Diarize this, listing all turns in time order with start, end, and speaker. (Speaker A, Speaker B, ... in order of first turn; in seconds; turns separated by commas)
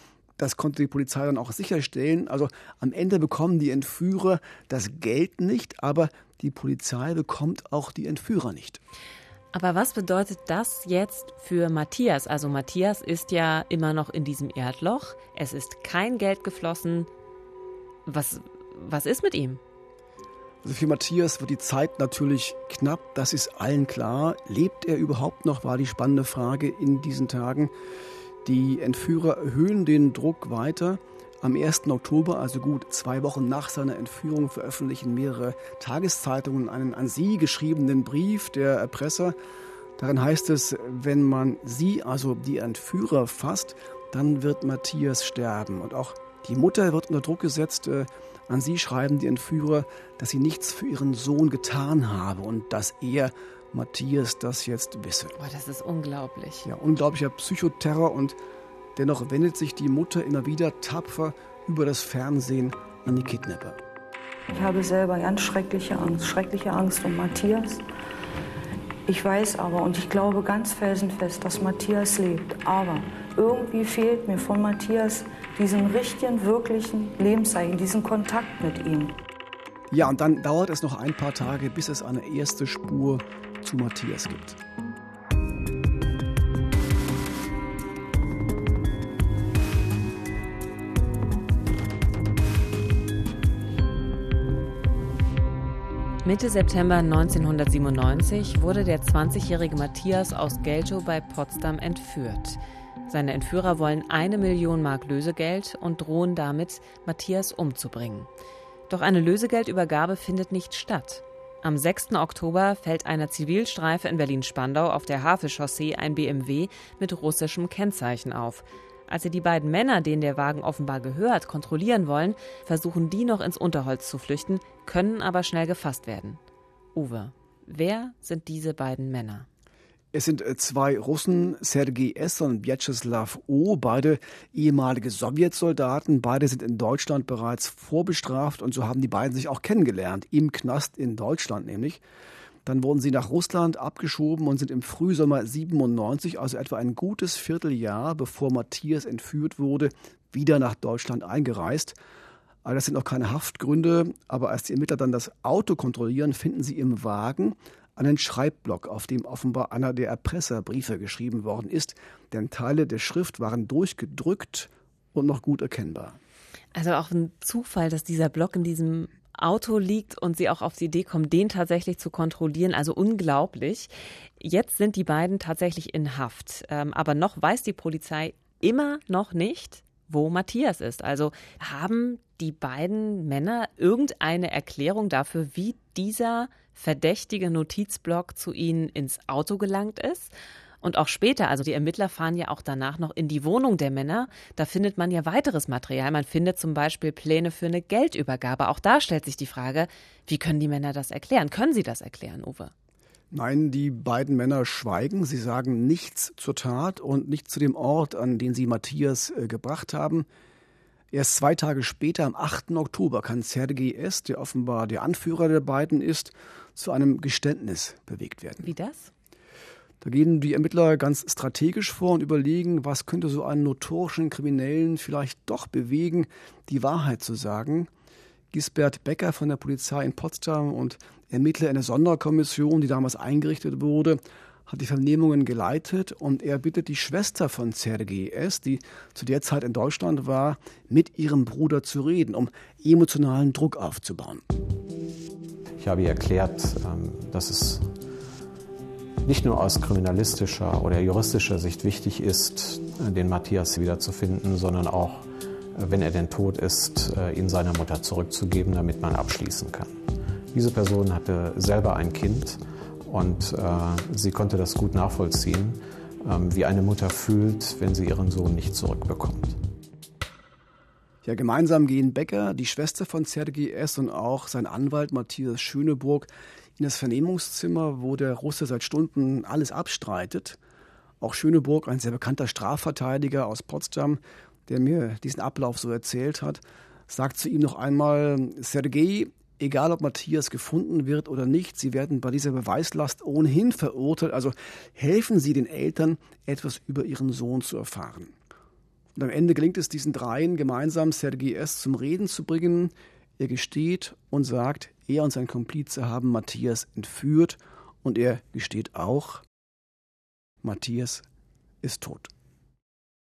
Speaker A: 0.4-8.8, Speaker B: 9.5-17.1, Speaker B: 18.1-19.6, Speaker A: 20.6-27.7, Speaker A: 28.4-39.4, Speaker A: 40.0-55.3, Speaker B: 55.4-56.7, Speaker A: 56.6-58.4, Speaker A: 59.0-63.8, Speaker C: 64.5-67.8, Speaker C: 69.1-79.2, Speaker A: 79.9-84.6, Speaker B: 96.2-108.3, Speaker B: 108.9-126.4, Speaker B: 126.9-129.4, Speaker A: 130.1-142.0, Speaker A: 142.7-151.9, Speaker A: 152.6-166.2, Speaker B: 166.7-202.7, Speaker A: 203.3-210.2, Speaker A: 211.1-218.7, Speaker B: 218.6-219.1, Speaker A: 220.0-227.9, Speaker A: 228.5-244.4, Speaker D: 245.8-247.9, Speaker D: 249.2-269.6, Speaker A: 271.2-280.6, Speaker A: 281.2-298.3, Speaker A: 299.1-309.4, Speaker A: 310.6-311.2, Speaker A: 311.8-312.3